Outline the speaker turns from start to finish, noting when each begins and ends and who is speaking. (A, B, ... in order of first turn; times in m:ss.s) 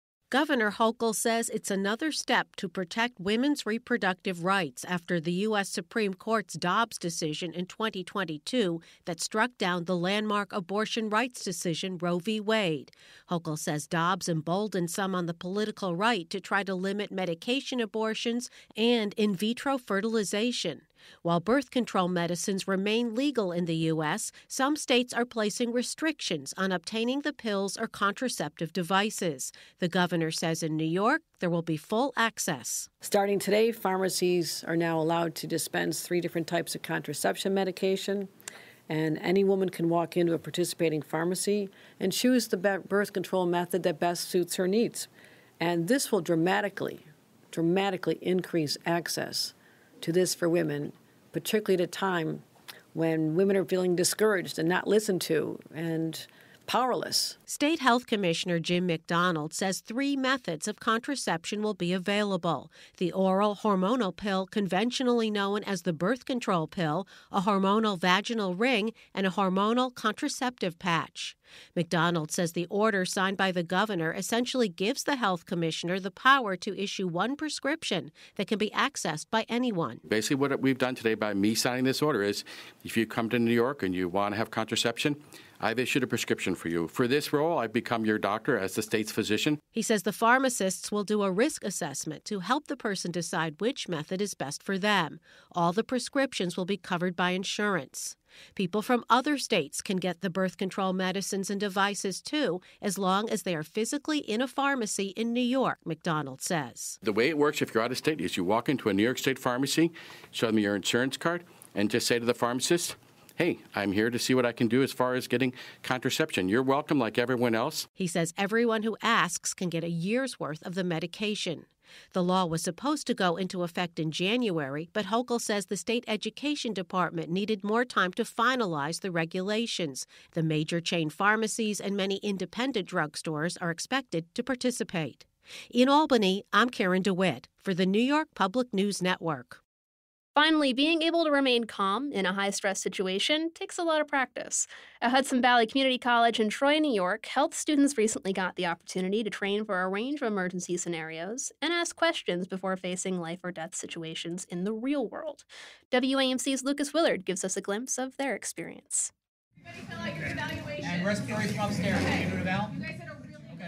0:00.3-0:32.9 A
0:33.0-0:38.3 B
0:38.9-0:45.1 B
0:45.6-0:57.4 B
0:57.5-1:20.0 A
1:20.0-1:29.6 C
1:29.7-1:47.0 A
1:47.0-1:57.9 C
1:58.0-2:19.6 A
2:20.4-2:39.1 D
2:39.7-2:43.4 E